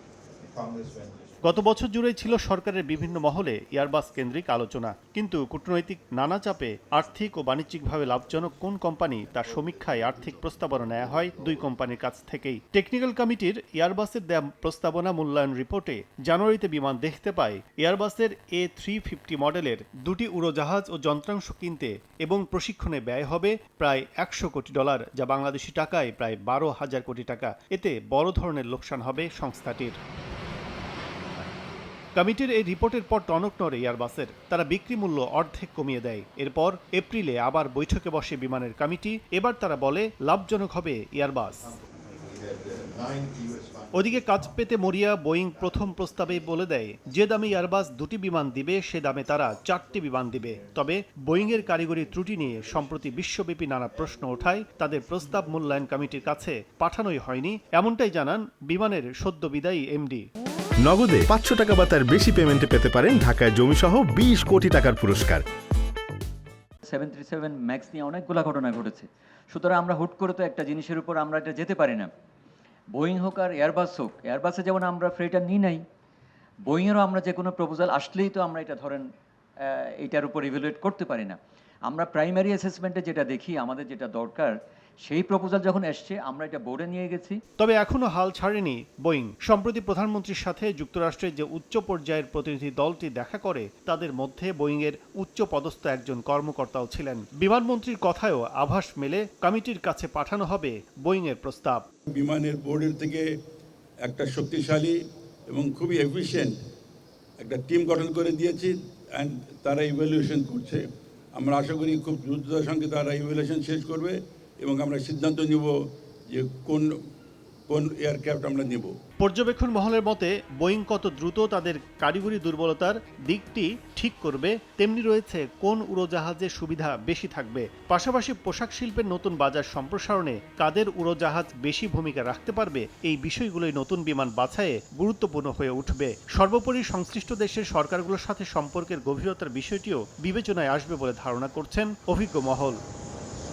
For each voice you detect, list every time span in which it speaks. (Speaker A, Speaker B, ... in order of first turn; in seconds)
Speaker A: 1.4-30.0, 32.1-41.7, 43.9-60.3, 87.6-101.8, 119.2-142.8
Speaker B: 60.8-65.4
Speaker C: 66.9-72.1, 72.9-75.8, 76.7-79.0, 79.6-81.4, 81.9-84.5, 85.1-87.4
Speaker D: 102.1-103.2, 104.0-105.0, 105.5-106.6, 107.4-110.8, 111.3-115.7, 116.3-116.9, 117.7-118.9